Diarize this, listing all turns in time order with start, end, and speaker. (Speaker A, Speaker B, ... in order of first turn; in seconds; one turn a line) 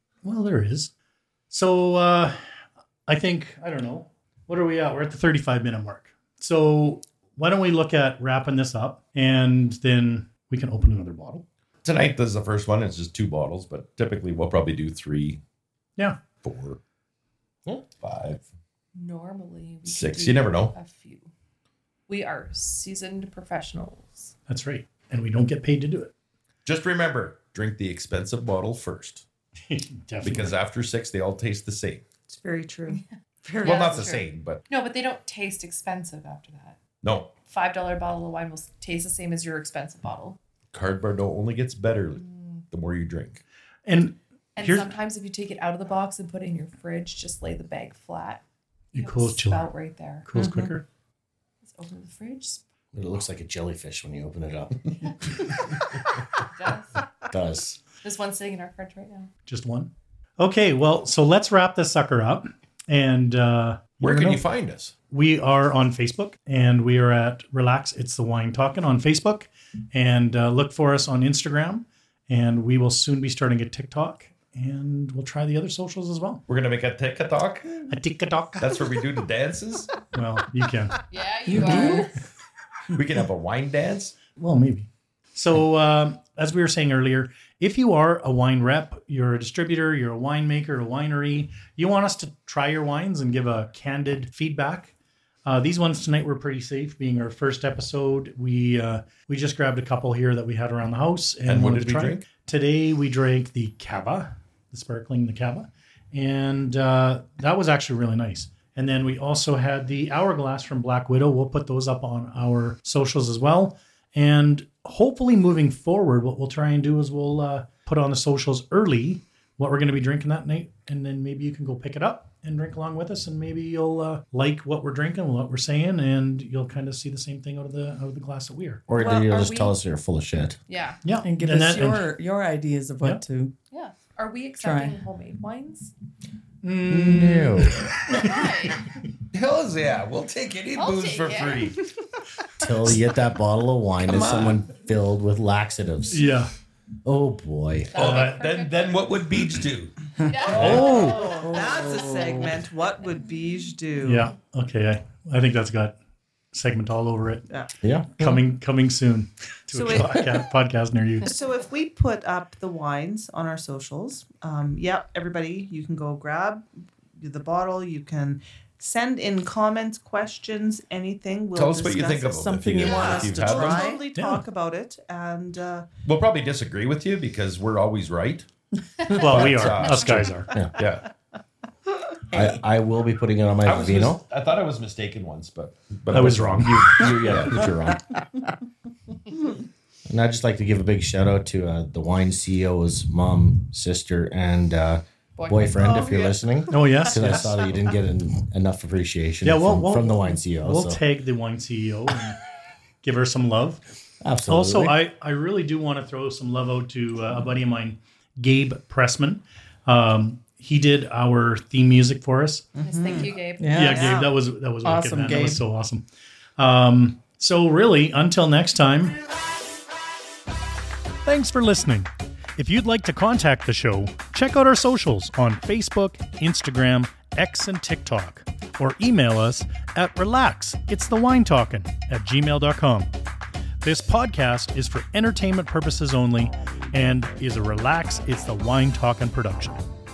Speaker A: 0.2-0.9
Speaker A: 1.5-2.4
Speaker A: 3.1-11.4
Speaker B: 11.8-15.4
Speaker B: 16.4-16.8
Speaker B: 18.0-18.4
Speaker C: 18.9-21.3
Speaker B: 19.9-20.7
Speaker C: 22.1-24.3
Speaker A: 24.5-26.1
Speaker B: 26.6-29.2
Speaker A: 29.7-30.6
Speaker B: 30.2-32.0
Speaker D: 32.3-33.8
Speaker C: 33.6-36.8
Speaker B: 33.6-34.6
Speaker B: 37.0-37.3
Speaker C: 37.5-40.4
Speaker B: 40.7-43.4
Speaker C: 42.2-42.6
Speaker A: 43.9-44.9
Speaker C: 44.5-48.4
Speaker A: 48.9-49.7
Speaker C: 48.9-50.3
Speaker A: 50.2-50.8
Speaker D: 50.3-50.7
Speaker C: 51.6-52.6
Speaker E: 52.9-54.8
Speaker C: 56.4-57.0
Speaker E: 57.2-57.8
Speaker C: 58.0-59.3
Speaker A: 59.5-64.4
Speaker B: 64.0-64.9
Speaker A: 65.1-76.4
Speaker B: 76.5-77.8
Speaker A: 77.9-78.9
Speaker B: 78.6-79.9
Speaker A: 80.1-82.1
Speaker C: 81.1-82.2
Speaker F: 81.5-82.1
Speaker B: 82.9-84.2
Speaker A: 84.3-94.9
Speaker A: 95.4-128.8
Speaker B: 101.4-102.2
Speaker E: 128.9-130.6
Speaker C: 128.9-129.7
Speaker C: 130.7-131.0
Speaker A: 131.0-132.1
Speaker F: 131.2-133.5
Speaker C: 133.7-135.9
Speaker F: 134.6-135.0
Speaker A: 136.6-138.5
Speaker E: 136.9-138.2
Speaker C: 138.1-138.9
Speaker B: 139.3-141.8
Speaker C: 140.7-141.8
Speaker E: 142.6-146.3
Speaker B: 144.1-144.6
Speaker A: 146.1-146.5
Speaker E: 147.0-148.1
Speaker C: 147.9-149.1
Speaker B: 147.9-149.9
Speaker C: 150.2-151.4
Speaker D: 150.4-154.3
Speaker A: 150.5-151.2
Speaker B: 150.5-150.9
Speaker F: 151.2-152.6
Speaker A: 154.0-155.9
Speaker A: 156.5-157.4
Speaker E: 157.8-158.4
Speaker A: 158.1-161.3
Speaker D: 159.7-160.3
Speaker D: 161.2-175.9
Speaker B: 171.5-173.9
Speaker F: 172.2-174.1
Speaker A: 174.1-174.4
Speaker B: 176.0-178.5
Speaker A: 179.1-180.5
Speaker B: 179.1-181.1
Speaker E: 180.5-180.8
Speaker E: 182.3-184.2
Speaker B: 183.6-187.7
Speaker A: 186.1-187.0
Speaker E: 186.1-188.0
Speaker E: 190.1-201.0
Speaker C: 195.4-196.2
Speaker D: 195.8-197.2
Speaker A: 196.7-197.5
Speaker A: 199.4-202.4
Speaker A: 203.0-203.8
Speaker E: 204.2-205.0
Speaker A: 204.5-212.6
Speaker D: 212.8-214.3
Speaker C: 212.8-214.1
Speaker F: 213.6-214.2
Speaker A: 213.7-216.0
Speaker F: 214.8-215.6
Speaker A: 216.6-219.2
Speaker A: 221.2-233.1
Speaker A: 233.8-239.8